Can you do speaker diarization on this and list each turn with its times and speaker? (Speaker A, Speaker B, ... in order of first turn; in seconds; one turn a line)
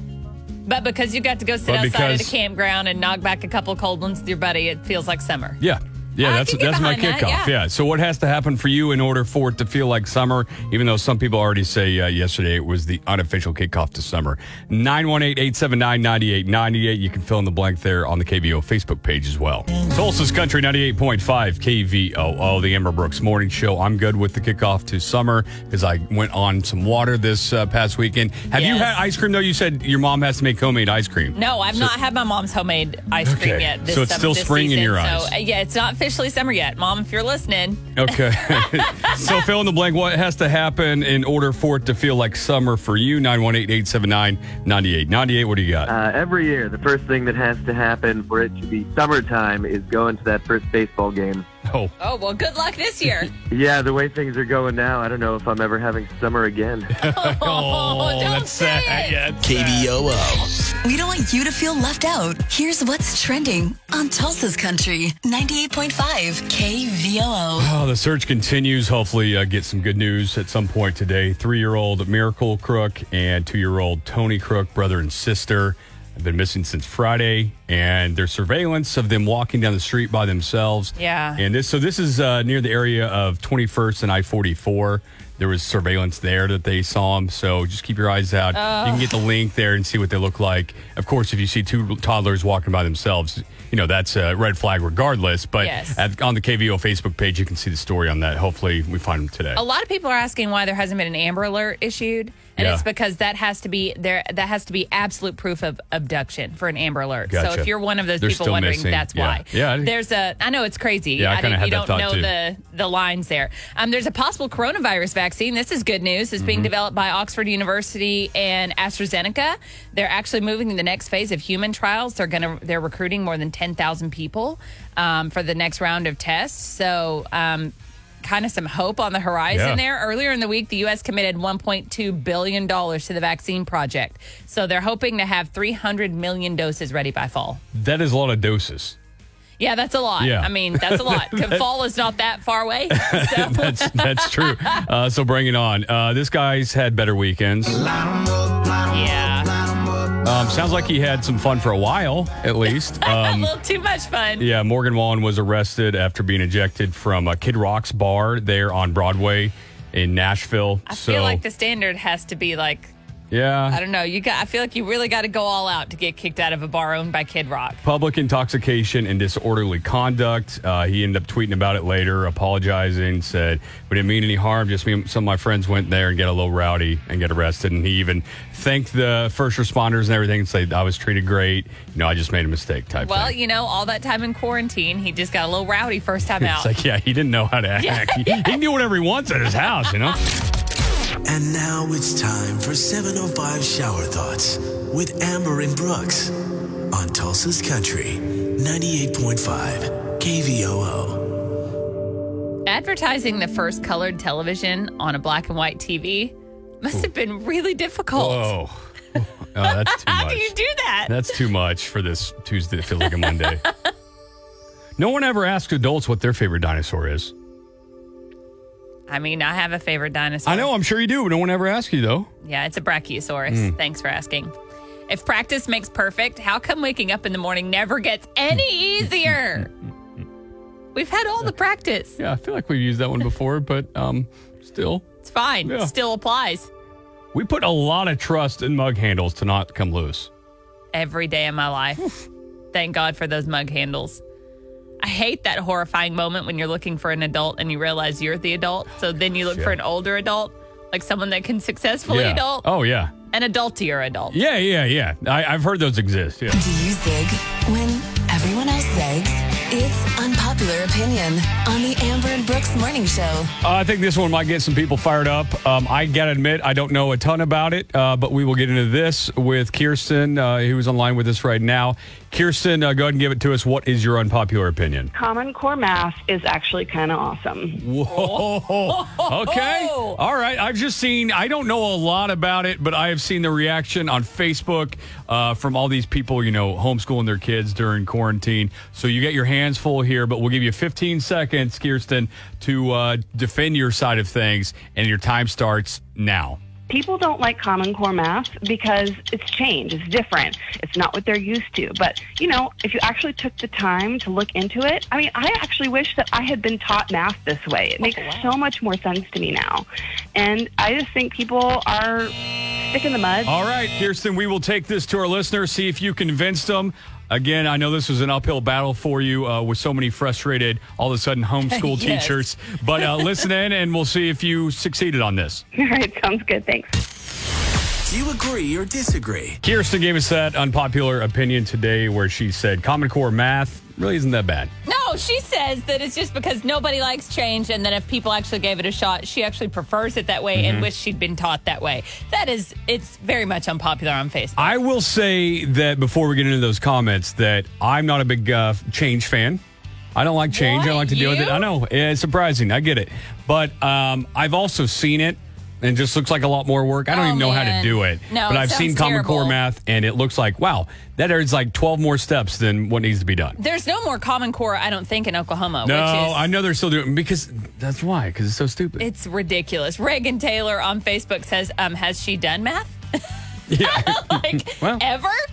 Speaker A: 0.7-5.6
Speaker B: 1.7-2.3
Speaker B: 5.6-31.9
Speaker A: 6.2-7.6
Speaker A: 28.5-29.0
Speaker A: 31.4-39.3
Speaker B: 33.2-35.3
Speaker B: 38.0-45.9
Speaker C: 45.9-51.4
Speaker B: 51.7-51.9
Speaker A: 52.0-53.3
Speaker C: 53.5-56.9
Speaker B: 57.0-60.0
Speaker A: 57.0-59.2
Speaker D: 59.4-60.5
Speaker E: 60.8-67.7
Speaker B: 67.6-99.6
Speaker A: 81.0-81.4
Speaker A: 88.5-89.1
Speaker A: 95.6-96.0
Speaker A: 99.6-137.6
Speaker B: 102.6-102.8
Speaker B: 107.3-109.9
Speaker B: 111.2-112.3
Speaker B: 116.4-116.7
Speaker B: 129.5-129.8
Speaker B: 137.7-139.0
Speaker A: 139.6-144.8
Speaker B: 140.2-141.7
Speaker B: 142.9-147.9
Speaker A: 148.9-149.6
Speaker B: 150.2-153.5
Speaker A: 152.7-154.5
Speaker B: 154.4-161.4
Speaker A: 160.9-162.9
Speaker B: 163.3-163.8
Speaker A: 163.7-167.8
Speaker B: 167.8-183.3
Speaker A: 183.0-186.7
Speaker B: 186.2-190.2
Speaker A: 187.8-188.6
Speaker D: 191.2-196.3
Speaker D: 196.9-201.3
Speaker A: 202.7-208.6
Speaker B: 208.2-210.5
Speaker A: 209.6-211.3
Speaker B: 211.1-213.6
Speaker A: 213.0-213.7
Speaker B: 215.0-217.3
Speaker A: 219.1-220.7
Speaker B: 220.5-222.3
Speaker A: 222.4-224.5
Speaker B: 223.5-223.8
Speaker A: 225.1-229.7
Speaker A: 230.9-232.2
Speaker B: 232.2-235.1
Speaker A: 235.2-236.7
Speaker B: 235.7-235.9
Speaker B: 237.3-240.3
Speaker A: 240.9-242.2
Speaker A: 242.7-244.2
Speaker A: 245.0-252.7
Speaker B: 252.1-253.1
Speaker A: 253.3-254.4
Speaker B: 254.3-256.6
Speaker E: 256.5-263.5
Speaker B: 263.6-275.1
Speaker F: 275.1-277.8
Speaker B: 277.8-296.6
Speaker A: 278.1-280.2
Speaker F: 296.9-312.3
Speaker A: 308.0-308.5
Speaker F: 312.9-313.5
Speaker B: 313.5-325.6
Speaker A: 321.6-322.5
Speaker A: 323.0-323.5
Speaker F: 325.8-327.0
Speaker D: 328.1-329.6
Speaker B: 329.6-334.7
Speaker A: 334.9-344.8
Speaker B: 340.6-340.9
Speaker B: 344.6-349.6
Speaker B: 350.1-363.6
Speaker A: 350.5-351.8
Speaker A: 357.1-359.6
Speaker A: 363.6-366.5
Speaker B: 365.8-369.1
Speaker A: 369.0-373.0
Speaker B: 373.7-375.0
Speaker A: 373.8-375.4